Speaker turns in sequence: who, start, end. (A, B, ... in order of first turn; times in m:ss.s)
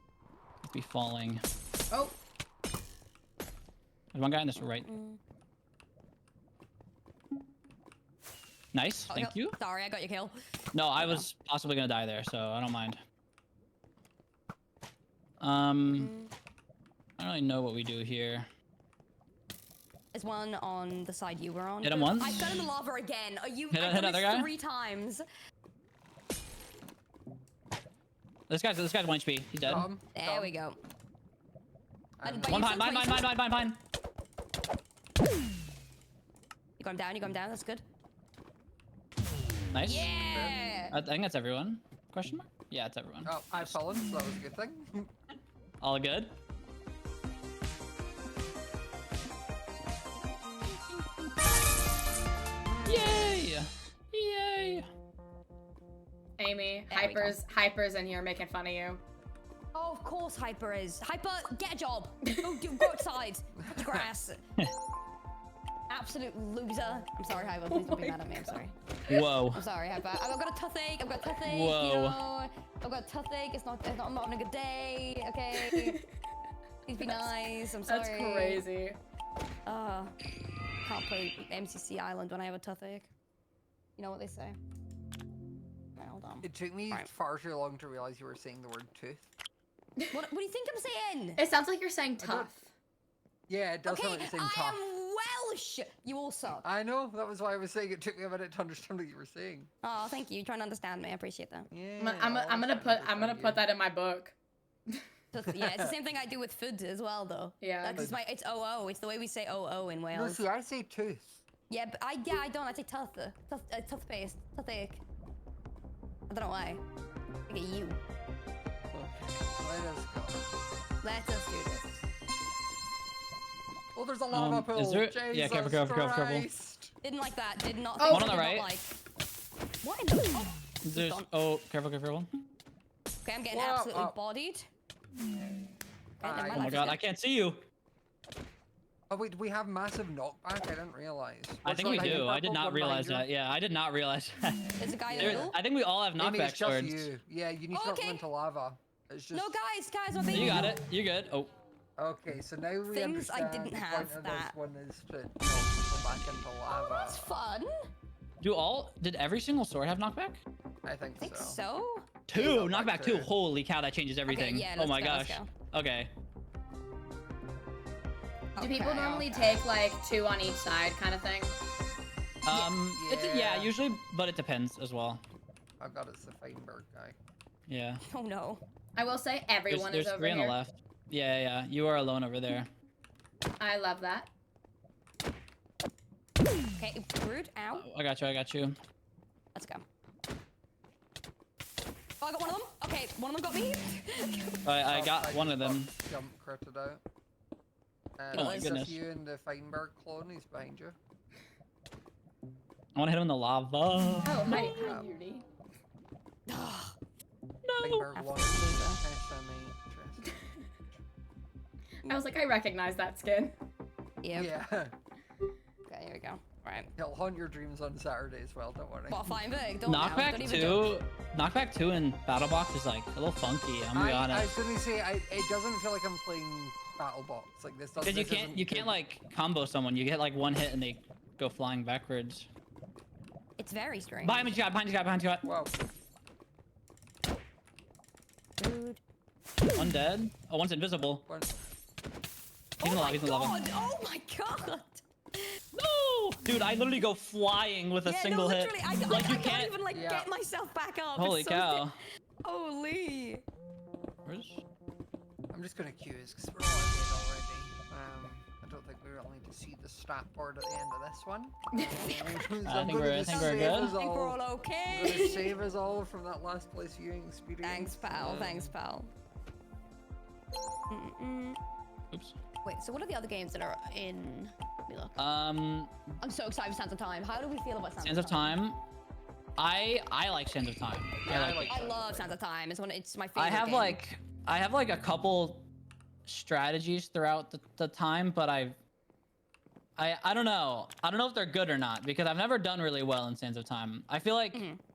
0:00.6-0:01.4 A
0:01.9-0:02.2 B
0:04.1-0:04.9 A
0:04.8-0:05.2 C
0:08.7-0:09.6 A
0:09.1-0:10.4 C
0:10.7-0:13.0 A
0:11.0-0:11.2 C
0:15.4-0:16.1 A
0:15.9-0:16.3 C
0:17.2-0:18.5 A
0:20.1-0:25.2 C
0:21.8-0:22.5 A
0:23.7-0:24.5 A
0:28.5-0:29.9 A
0:29.6-0:30.5 D
0:30.1-0:30.8 C
0:32.2-0:32.7 D
0:32.2-0:33.2 C
0:32.5-0:33.8 A
0:36.8-0:37.8 C
0:39.7-0:40.1 A
0:39.8-0:40.9 C
0:40.2-0:40.6 D
0:40.9-0:43.7 A
0:43.2-0:45.1 D
0:45.8-0:46.3 A
0:52.8-0:54.9 A
0:53.0-0:53.3 D
0:56.4-0:59.0 B
0:56.9-0:57.4 C
0:59.7-1:04.4 C
1:02.6-1:02.8 B
1:03.6-1:04.1 D
1:05.9-1:08.7 C
1:07.4-1:08.5 B
1:09.1-1:09.6 A
1:09.5-1:16.0 C
1:11.4-1:12.2 A
1:15.5-1:16.0 B
1:16.9-1:18.6 C
1:17.0-1:19.0 B
1:19.6-1:20.1 C
1:20.8-1:23.1 C
1:24.0-1:24.6 C
1:26.0-1:27.1 C
1:26.4-1:29.3 D
1:30.1-1:31.4 C
1:31.4-1:32.7 B
1:32.2-1:32.5 D
1:33.5-1:34.8 D
1:33.8-1:36.6 C
1:36.6-1:39.7 D
1:39.8-1:41.7 C
1:41.7-1:43.6 D
1:42.0-1:44.3 B
1:45.3-1:50.5 C
1:45.5-1:45.9 D
1:47.6-1:48.1 B
1:47.9-1:48.2 D
1:50.1-1:51.4 D
1:51.7-1:55.0 C
1:56.3-1:56.8 C
1:57.5-1:58.0 C
1:58.9-2:00.4 D
2:01.0-2:02.0 C
2:03.9-2:06.9 D
2:04.3-2:06.5 A
2:07.0-2:08.9 C
2:08.0-2:08.4 B
2:08.1-2:08.7 A
2:09.8-2:11.3 C
2:10.8-2:12.3 A
2:13.2-2:14.7 C
2:13.5-2:14.1 D
2:16.2-2:17.0 C
2:16.2-2:16.9 D
2:16.5-2:17.6 A
2:19.1-2:23.3 D
2:21.6-2:27.1 A
2:24.8-2:25.6 C
2:25.1-2:25.5 D
2:26.2-2:29.6 D
2:27.7-2:28.2 C
2:29.3-2:30.8 C
2:30.3-2:31.5 A
2:30.3-2:30.7 D
2:32.0-2:37.3 D
2:32.9-2:34.5 C
2:36.1-2:36.4 A
2:36.7-2:37.7 C
2:38.4-2:40.4 A
2:40.8-2:41.6 D
2:41.2-2:42.1 C
2:42.3-2:46.1 A
2:42.3-2:43.3 D
2:44.2-2:45.5 C
2:48.6-2:49.6 C
2:48.6-2:51.6 B
2:52.4-2:55.2 A
2:52.9-2:53.7 D
2:55.8-2:57.2 D
2:57.7-2:58.0 A
2:58.1-2:58.6 C
2:59.0-3:00.6 B
2:59.7-3:02.7 A
3:03.6-3:04.3 B
3:06.8-3:07.9 C
3:07.7-3:08.8 A
3:09.5-3:09.8 C
3:12.2-3:14.5 C
3:14.6-3:15.9 A
3:14.9-3:17.0 D
3:18.2-3:21.0 D
3:18.3-3:18.8 C
3:18.3-3:19.0 A
3:22.9-3:24.8 A
3:24.2-3:25.4 B
3:24.8-3:25.1 D
3:26.5-3:27.0 C
3:27.6-3:28.1 A
3:27.8-3:30.3 D
3:28.1-3:29.0 C
3:32.0-3:33.5 B
3:34.2-3:34.5 C
3:34.3-3:34.9 D
3:35.9-3:36.9 C
3:37.0-3:39.4 D
3:39.1-3:40.9 C
3:39.8-3:44.5 A
3:43.9-3:49.0 D
3:48.0-3:52.5 A
3:53.6-3:54.5 C
3:54.2-3:55.4 A
3:55.4-3:55.7 D
3:58.6-3:59.0 C
3:59.7-4:01.2 A
4:01.3-4:01.6 D
4:02.8-4:05.4 C
4:02.8-4:03.6 A
4:05.7-4:09.7 A
4:08.0-4:13.4 C
4:09.9-4:10.3 D
4:11.1-4:12.0 A
4:14.2-4:14.6 A
4:15.5-4:28.7 D
4:21.7-4:22.2 B
4:22.6-4:24.0 A
4:23.2-4:25.5 C
4:27.6-4:29.1 C
4:30.9-4:31.6 C
4:32.1-4:32.4 A
4:32.6-4:35.2 C
4:35.2-4:36.0 A
4:36.2-4:38.6 C
4:38.0-4:38.8 A
4:39.6-4:41.9 A
4:41.2-4:42.3 D
4:41.6-4:44.0 C
4:43.4-4:45.6 A
4:46.2-4:48.8 A
4:50.0-4:54.6 A
4:54.5-4:54.8 C